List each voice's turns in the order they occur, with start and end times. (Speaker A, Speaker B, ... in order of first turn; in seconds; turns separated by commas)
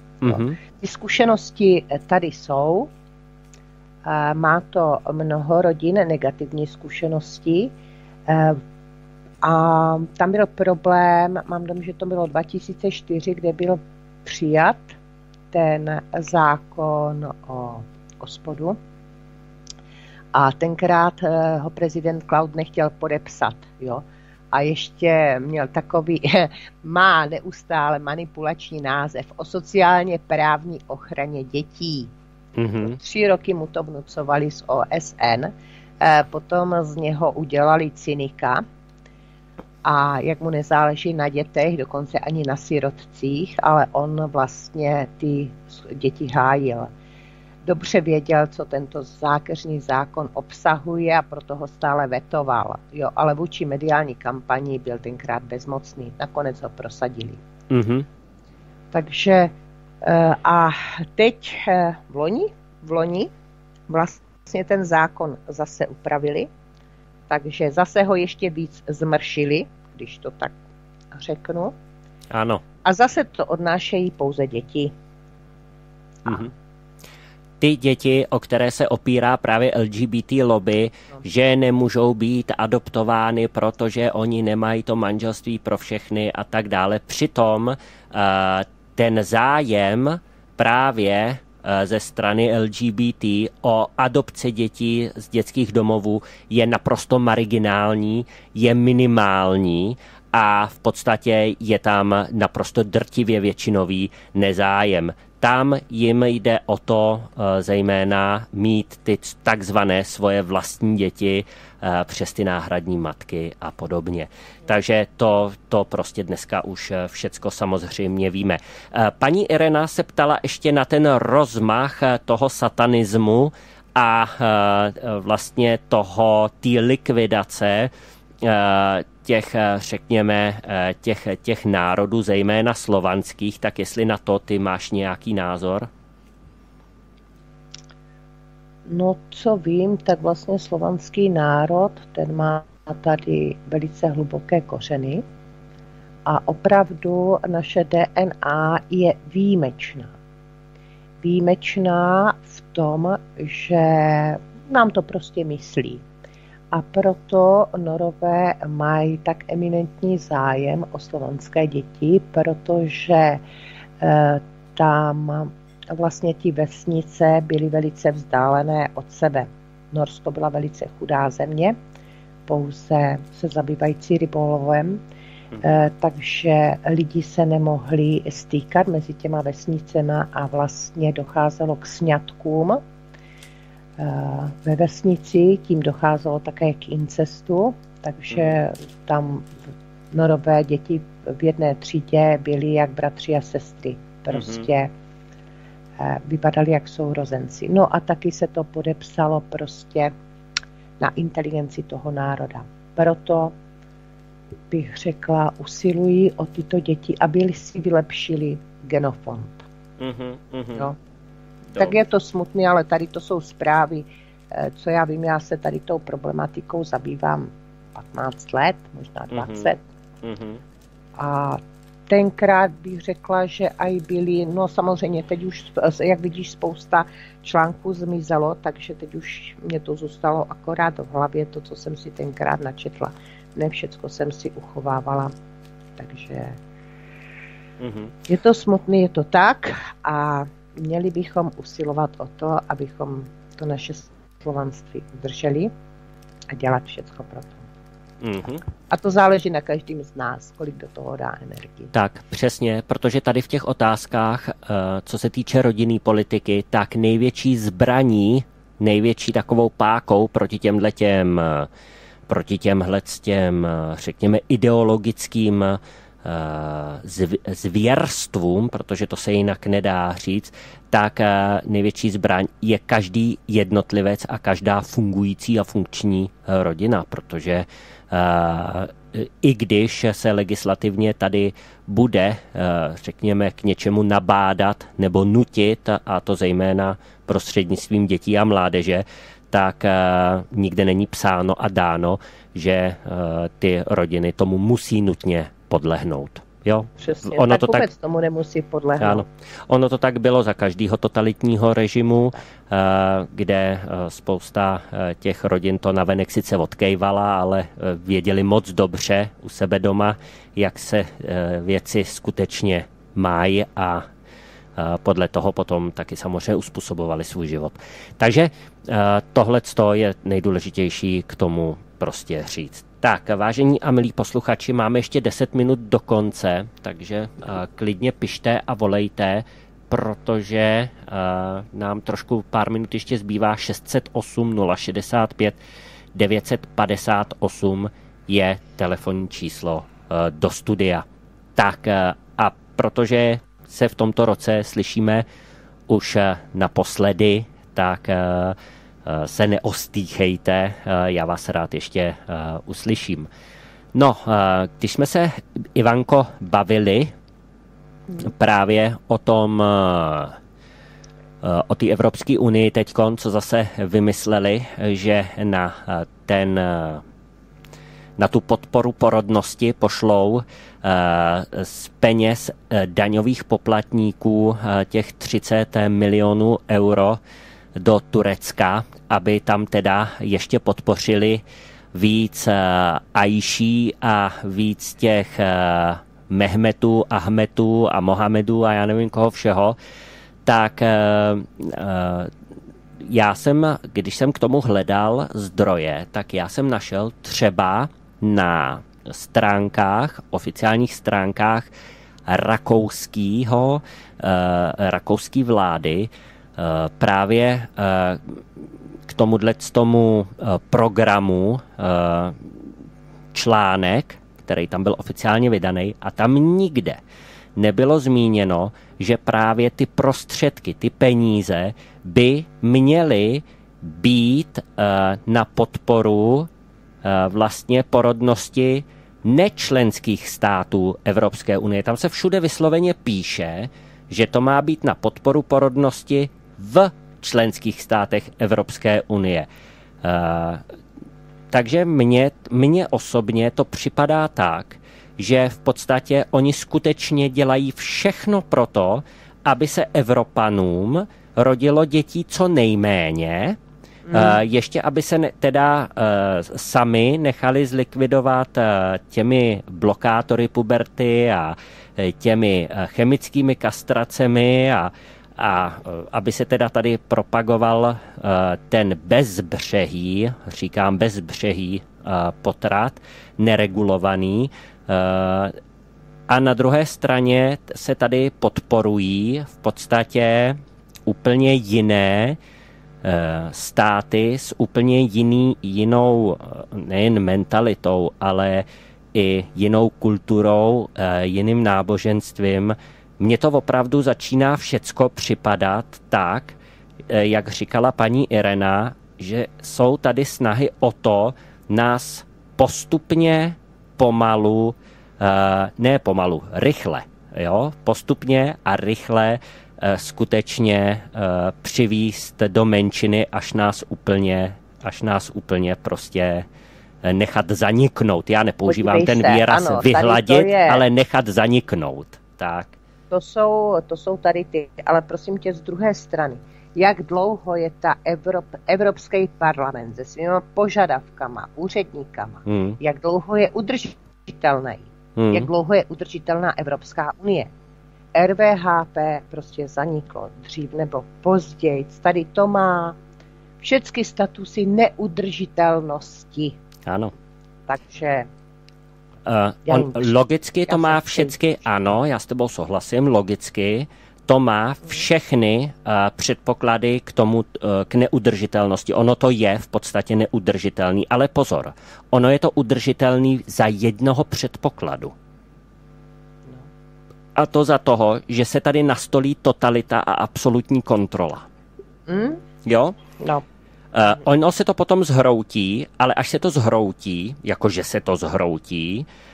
Speaker A: 0.2-0.6, Speaker B: 0.2-2.9, Speaker B: 4.0-7.7, Speaker B: 8.3-8.6, Speaker B: 9.4-15.0, Speaker B: 15.5-18.8, Speaker B: 20.3-32.1, Speaker A: 32.6-33.0, Speaker B: 32.8-38.6, Speaker B: 39.8-46.9, Speaker B: 47.6-57.4, Speaker A: 57.7-58.0, Speaker B: 58.9-63.3, Speaker B: 63.9-66.5, Speaker B: 67.3-70.5, Speaker B: 71.1-71.7, Speaker A: 72.3-72.6, Speaker B: 72.8-74.9, Speaker A: 76.2-76.5, Speaker A: 77.6-127.9, Speaker A: 128.4-135.9, Speaker B: 138.8-145.2, Speaker B: 146.2-150.1, Speaker B: 151.2-156.0, Speaker B: 156.7-163.4, Speaker B: 164.0-171.8, Speaker B: 172.5-175.0, Speaker B: 175.6-182.8, Speaker B: 184.0-189.6, Speaker B: 190.1-194.9, Speaker A: 194.3-194.7, Speaker B: 196.0-200.1, Speaker B: 201.0-203.5, Speaker B: 204.7-209.7, Speaker A: 210.0-210.9, Speaker B: 211.7-219.8, Speaker A: 219.3-220.6, Speaker B: 221.2-235.3, Speaker B: 236.0-236.6, Speaker A: 237.8-238.2, Speaker B: 238.3-245.7, Speaker B: 246.5-247.7, Speaker A: 248.2-248.6, Speaker B: 248.9-251.9, Speaker A: 251.9-261.7, Speaker A: 262.3-297.9, Speaker B: 297.0-299.2, Speaker A: 299.0-314.1, Speaker A: 314.8-335.6, Speaker A: 336.1-341.0, Speaker A: 341.6-345.2, Speaker A: 345.9-353.3, Speaker A: 353.9-357.1, Speaker A: 358.2-360.4, Speaker A: 361.4-367.0, Speaker A: 368.2-377.2, Speaker A: 377.8-381.4, Speaker A: 381.9-389.8, Speaker A: 390.4-392.3, Speaker A: 393.0-401.7, Speaker A: 402.3-408.4, Speaker A: 409.1-412.5, Speaker A: 413.3-417.0, Speaker A: 417.6-426.5, Speaker A: 427.0-439.5, Speaker A: 440.0-440.6, Speaker A: 441.5-453.6, Speaker B: 454.1-454.4, Speaker A: 454.1-475.6, Speaker A: 476.3-482.4, Speaker A: 483.0-496.6, Speaker A: 497.1-516.5, Speaker A: 517.0-522.8, Speaker B: 518.6-520.8, Speaker B: 523.1-537.5, Speaker A: 532.5-532.8, Speaker A: 535.1-535.5, Speaker B: 538.1-543.0, Speaker B: 543.6-546.6, Speaker A: 546.9-547.1, Speaker B: 547.7-548.3, Speaker A: 549.2-565.1, Speaker B: 549.7-550.1, Speaker B: 550.6-551.3, Speaker A: 567.4-571.5, Speaker B: 572.1-572.4, Speaker A: 572.6-573.0, Speaker B: 573.2-573.4, Speaker A: 573.9-579.0